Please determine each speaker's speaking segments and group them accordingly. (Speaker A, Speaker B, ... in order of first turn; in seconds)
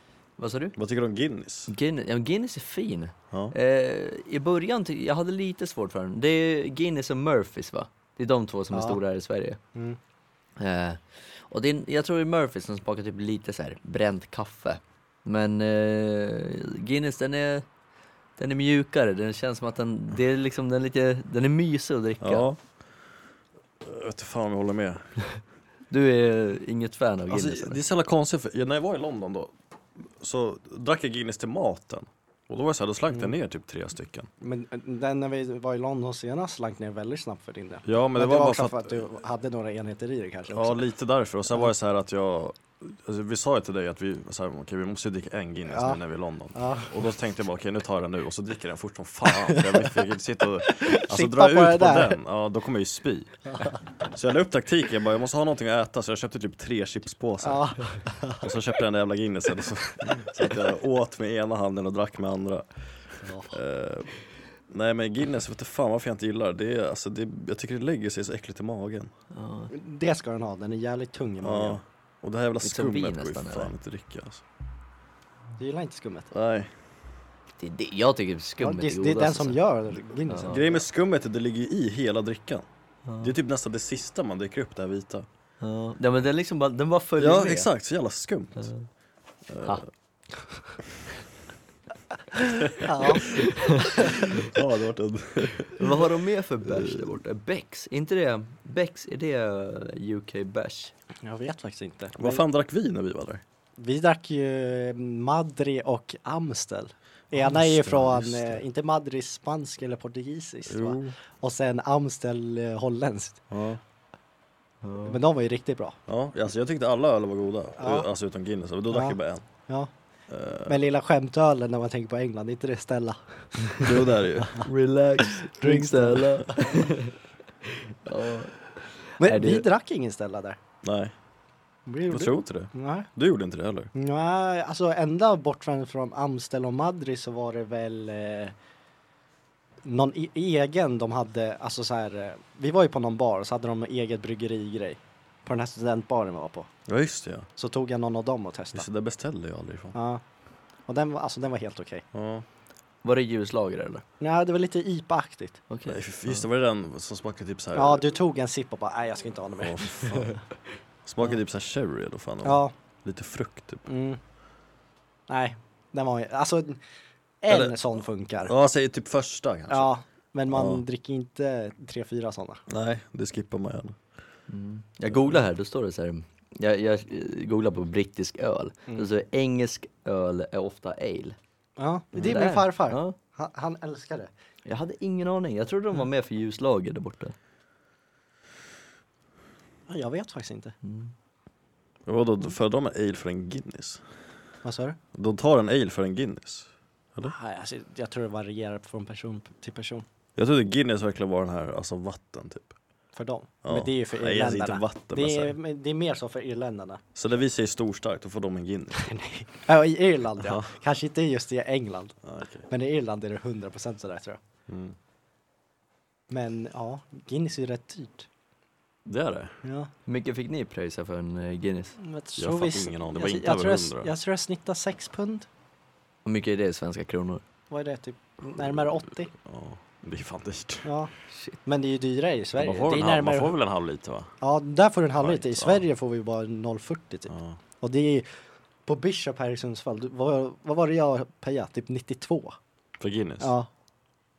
Speaker A: 0.4-0.8, 1.7-9.6, 10.6-17.7, 18.4-22.5, 25.9-27.8, 69.3-69.7, 72.6-73.7, 77.6-79.6, 80.3-80.6, 83.1-83.3, 85.6-87.7, 88.6-88.9, 93.6-93.9, 95.8-100.9, 114.8-115.2, 124.5-127.1, 128.1-129.7, 153.0-154.0, 155.7-156.4, 174.5-181.4, 182.2-183.2, 184.7-187.3, 190.8-191.1, 220.1-222.0, 226.2-227.4
Speaker B: 0.8-1.7, 22.2-22.6, 23.8-25.1, 27.3-29.5, 30.1-34.3, 37.9-39.0, 40.5-62.7, 63.5-64.1, 64.7-69.1, 71.4-74.4, 76.3-76.7, 80.5-82.7, 83.2-85.3, 87.2-88.7, 89.5-89.8, 94.2-95.9, 96.7-97.2, 102.2-103.4, 107.3-108.6, 110.7-111.2, 113.5-113.8, 116.1-119.5, 120.3-120.8, 123.8-124.7, 130.8-131.1, 132.1-133.9, 146.9-147.5, 148.7-149.9, 152.1-152.4, 155.9-158.0, 159.6-160.4, 161.1-163.9, 167.5-169.9, 170.5-170.8, 172.7-174.0, 192.1-194.0, 195.1-197.3, 200.4-202.8, 203.7-205.5, 207.2-209.1, 210.4-210.7, 212.2-212.7, 214.7-215.0, 219.1-219.6, 222.4-224.1, 228.6-228.8, 229.3-230.9, 232.6-234.3, 235.2-235.8, 237.3-237.6, 243.0-243.5
Speaker C: 8.7-9.0, 34.4-40.9, 45.7-46.0, 46.5-47.0, 49.3-50.1, 50.6-52.2, 53.5-53.8, 57.4-58.5, 63.2-63.6, 69.7-71.8, 75.6-76.3, 78.6-80.8, 92.3-93.3, 94.0-94.2, 101.2-102.4, 103.8-113.4, 115.0-116.0, 117.8-118.1, 118.9-119.2, 120.7-123.9, 125.6-126.5, 129.2-130.6, 131.9-133.1, 133.9-138.6, 139.8-146.7, 147.6-148.9, 149.9-150.2, 150.9-152.1, 154.2-155.6, 157.8-160.1, 162.4-162.7, 163.9-164.2, 165.3-166.8, 167.4-168.5, 169.7-172.6, 181.8-184.3, 189.9-190.7, 194.6-195.0, 197.2-200.1, 203.1-207.0, 208.9-212.2, 212.7-214.4, 216.3-218.3, 219.6-219.9, 222.0-225.5, 227.7-229.3, 230.8-231.1, 231.7-233.5, 234.4-238.3, 238.9-242.6, 243.4-243.7